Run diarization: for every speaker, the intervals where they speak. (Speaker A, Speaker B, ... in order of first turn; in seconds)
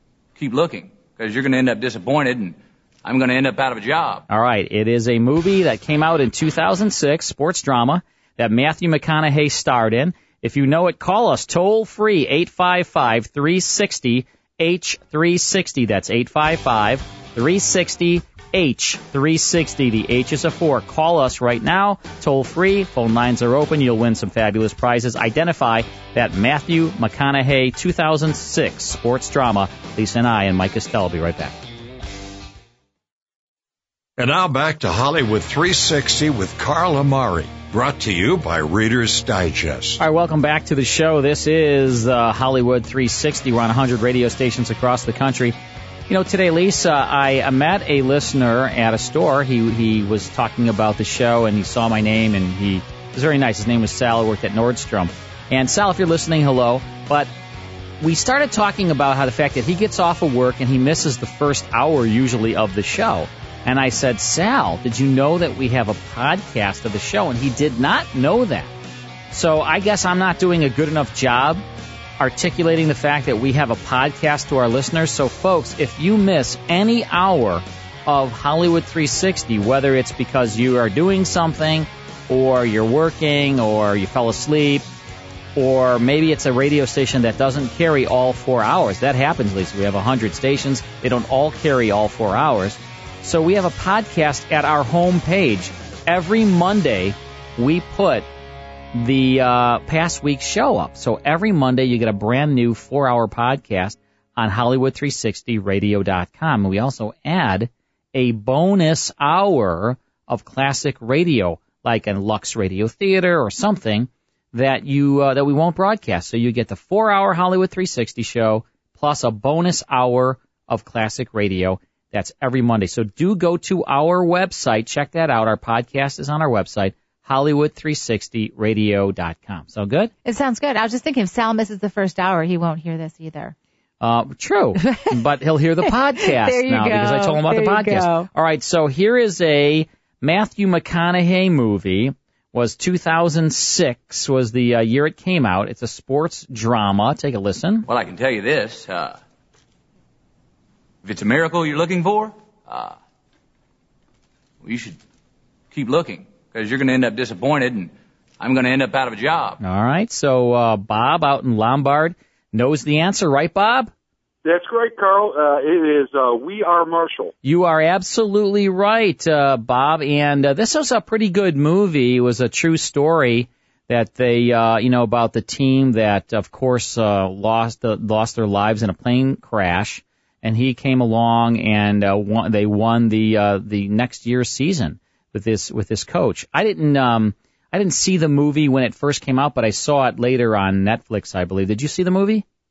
Speaker A: 0.4-4.3, 147.9-149.2, 151.0-153.0, 154.6-155.0, 155.7-159.6
Speaker B: 4.3-31.6, 40.0-45.6, 46.1-57.3, 58.0-68.7, 69.3-71.6, 72.2-84.8, 85.5-98.3, 98.9-130.1, 134.0-147.9, 159.6-163.9, 167.4-192.4
Speaker C: 34.2-40.0
Speaker D: 130.2-133.6, 135.8-138.3
Speaker E: 164.4-167.3